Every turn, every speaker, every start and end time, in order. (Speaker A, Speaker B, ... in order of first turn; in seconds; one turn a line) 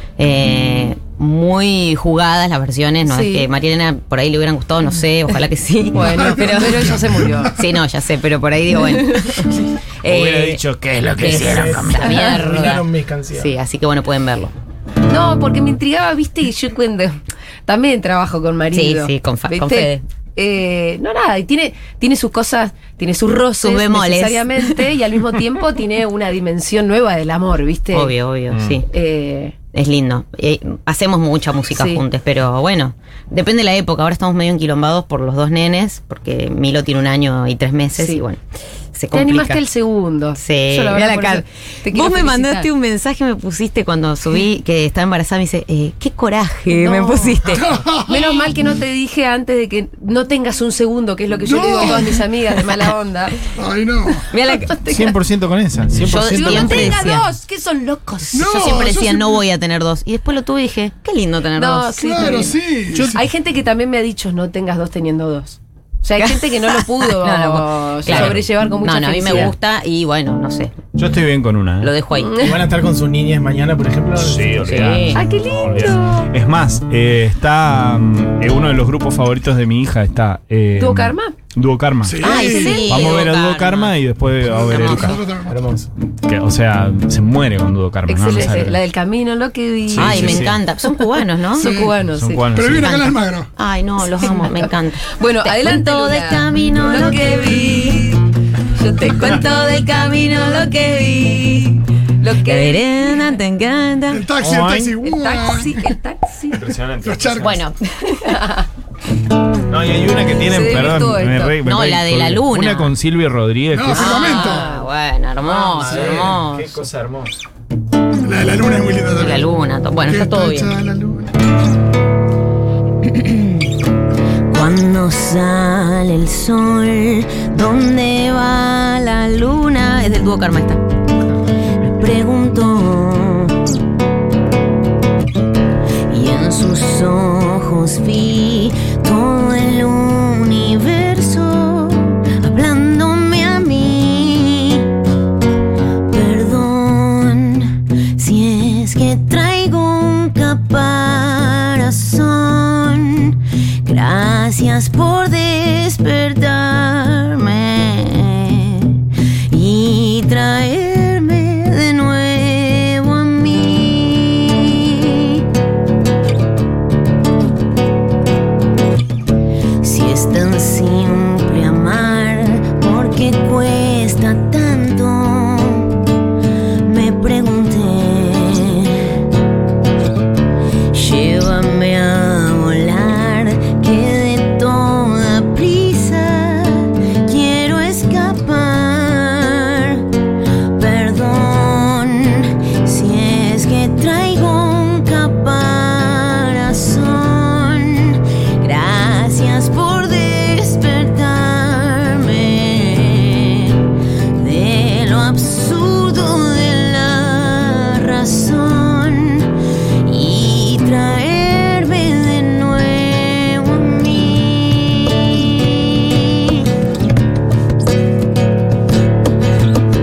Speaker A: 0.2-7.0
Speaker B: 3.1-3.5
Speaker B: 5.9-7.5
Speaker C: 6.0-7.5
Speaker A: 7.6-10.6
Speaker B: 8.9-9.4
Speaker D: 10.1-12.3
Speaker A: 11.1-14.5
Speaker E: 11.2-13.6
Speaker B: 15.1-28.1
Speaker A: 18.7-20.0
Speaker A: 23.6-24.8
Speaker A: 27.9-28.9
Speaker D: 28.5-28.8
Speaker B: 28.9-29.6
Speaker A: 29.7-38.4
Speaker B: 31.7-32.0
Speaker B: 38.0-38.2
Speaker A: 38.9-39.6
Speaker B: 39.1-42.7
Speaker A: 40.4-47.8
Speaker B: 46.7-53.4
Speaker C: 47.5-48.5
Speaker C: 51.4-52.3
Speaker C: 53.5-54.2
Speaker A: 54.3-54.8
Speaker B: 54.5-55.2
Speaker D: 54.9-57.0
Speaker A: 56.0-57.3
Speaker B: 56.1-58.8
Speaker C: 58.3-59.4
Speaker A: 58.4-62.3
Speaker B: 61.6-62.6
Speaker C: 62.0-63.2
Speaker D: 62.9-63.2
Speaker B: 63.1-69.5
Speaker A: 66.2-70.8
Speaker D: 68.1-68.4
Speaker D: 71.0-71.9
Speaker A: 71.8-72.4
Speaker B: 72.2-72.5
Speaker E: 72.4-74.7
Speaker D: 74.2-82.3
Speaker A: 74.6-75.2
Speaker B: 75.2-76.3
Speaker B: 80.8-81.3
Speaker C: 82.0-82.9
Speaker A: 82.2-84.0
Speaker B: 82.3-83.2
Speaker D: 82.8-85.2
Speaker C: 84.4-85.6
Speaker A: 84.7-85.2
Speaker E: 85.5-85.9
Speaker D: 86.0-88.8
Speaker B: 88.1-90.5
Speaker D: 89.9-90.6
Speaker A: 90.0-91.7
Speaker B: 91.5-92.5
Speaker C: 91.6-92.0
Speaker D: 92.1-93.1
Speaker C: 92.5-93.5
Speaker A: 93.6-98.0
Speaker B: 94.2-103.2
Speaker A: 99.2-99.5
Speaker A: 100.2-100.9
Speaker A: 102.5-104.3
Speaker C: 104.1-105.9
Speaker D: 104.4-105.0
Speaker B: 105.0-106.6
Speaker D: 106.5-107.5
Speaker C: 107.0-107.5
Speaker A: 107.4-107.8
Speaker B: 108.0-108.7
Speaker D: 109.7-114.2
Speaker B: 110.5-111.6
Speaker A: 111.6-112.9
Speaker C: 113.7-114.7
Speaker A: 113.9-116.8
Speaker B: 114.2-114.9
Speaker D: 115.5-117.3
Speaker C: 118.2-119.5
Speaker A: 119.1-120.7
Speaker C: 120.1-121.3
Speaker A: 123.0-123.7
Speaker A: 124.5-130.8
Speaker A: 131.8-133.6
Speaker A: 136.1-144.9
Speaker A: 146.1-165.4
Speaker A: 169.8-175.9
Speaker A: 176.8-179.2
Speaker A: 180.9-190.0
Speaker A: 190.8-203.8
Speaker A: 204.4-209.5
Speaker A: 210.0-216.6